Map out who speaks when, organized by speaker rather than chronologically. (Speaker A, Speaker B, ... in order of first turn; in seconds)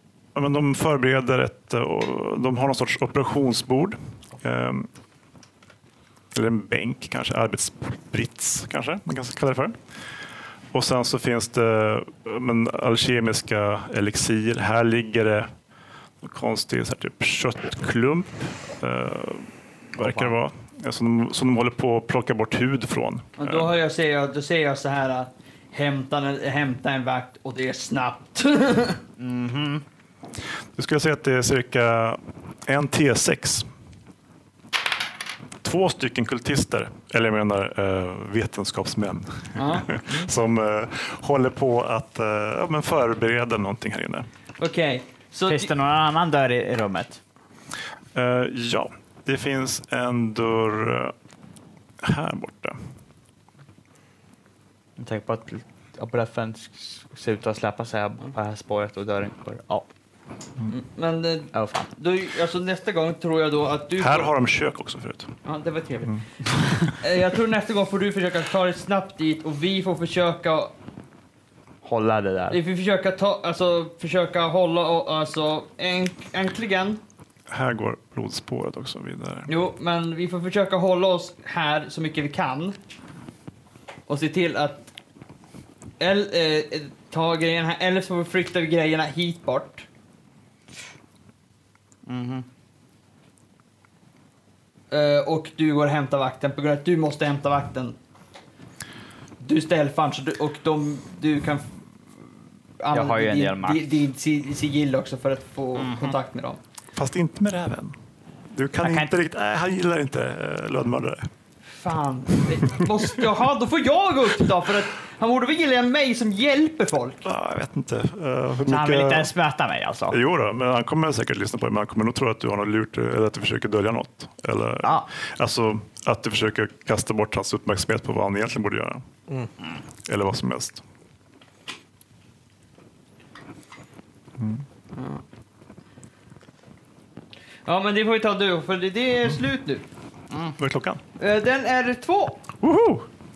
Speaker A: 0.3-4.9, 6.3-9.8, 10.7-15.5, 16.2-23.7, 30.8-33.7, 35.6-44.3, 48.1-51.1, 52.0-52.8, 64.0-65.3, 66.1-66.9, 77.5-79.5, 107.0-107.9, 108.5-111.3, 117.2-119.3, 120.1-129.1, 130.0-130.8, 140.6-141.0, 142.6-143.1
Speaker B: 20.0-20.3, 29.2-29.8, 45.5-47.2, 55.0-59.9, 61.5-61.9, 71.8-72.6, 92.0-92.5, 102.9-103.9, 105.8-106.1, 108.8-109.1, 118.6-120.2, 124.8-125.1
Speaker C: 23.4-29.0, 39.5-40.2, 44.6-45.7, 60.7-64.3, 65.5-66.1, 67.0-70.7, 72.5-77.0, 79.5-82.8, 84.1-84.9, 86.0-89.8, 94.9-98.0, 99.4-101.7, 102.8-106.6, 111.7-117.2, 137.7-139.8, 141.2-142.4